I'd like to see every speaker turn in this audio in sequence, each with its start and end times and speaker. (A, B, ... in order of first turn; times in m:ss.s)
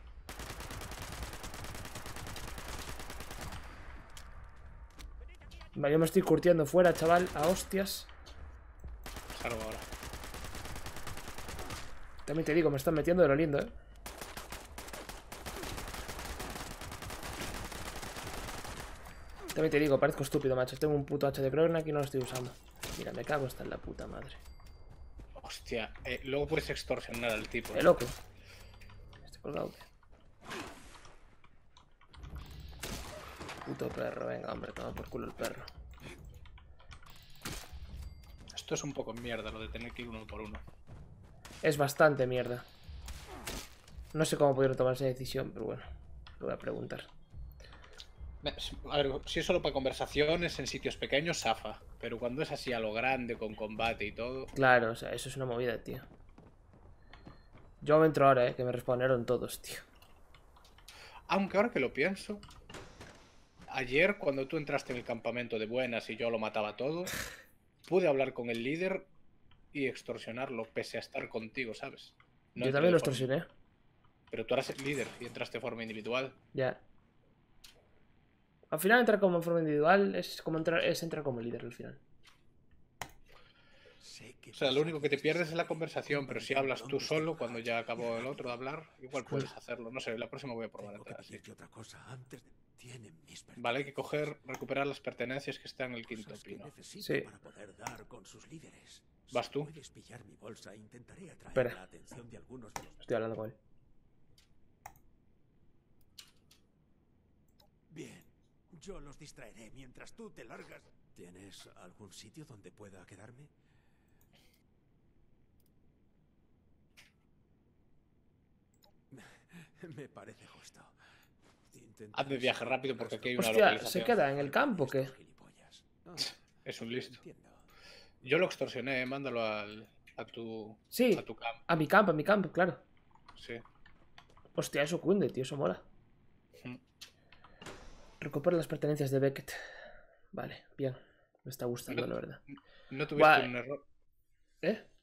0:05.8-0:08.1 A
0:09.3-0:09.8 B
0:12.2-0:13.7 A
0:19.5-0:24.4 A
0:25.4-0:28.0 B
0:27.7-0:28.2 A
0:29.2-0:29.8 A
0:33.6-0:35.7 A
0:38.5-0:40.6 B
0:41.6-0:42.7 A
0:44.1-0:45.8 A
0:46.4-0:47.1 A
0:48.4-0:54.5 B
0:54.5-0:56.1 A
0:57.8-0:59.8 A
1:01.3-1:02.4 B
1:03.7-1:07.1 B
1:07.8-1:09.1 B
1:09.7-1:13.3 B
1:12.6-1:13.5 A
1:14.3-1:16.4 B
1:16.5-1:16.8 A
1:18.7-1:22.0 A
1:24.0-1:28.6 C
1:24.5-1:31.4 B
1:30.8-1:34.3 C
1:33.6-1:36.7 B
1:36.0-1:43.1 C
1:37.0-1:37.3 A
1:39.3-1:39.7 B
1:43.0-1:43.6 A
1:47.9-1:53.5 C
1:59.1-2:00.9 C
2:01.7-2:07.7 C
2:02.1-2:04.2 B
2:03.4-2:05.1 A
2:06.6-2:07.2 B
2:08.2-2:11.6 B
2:10.9-2:12.8 A
2:13.4-2:13.6 B
2:14.6-2:15.8 A
2:18.2-2:19.6 A
2:20.3-2:22.4 A
2:21.9-2:23.8 B
2:23.1-2:23.5 A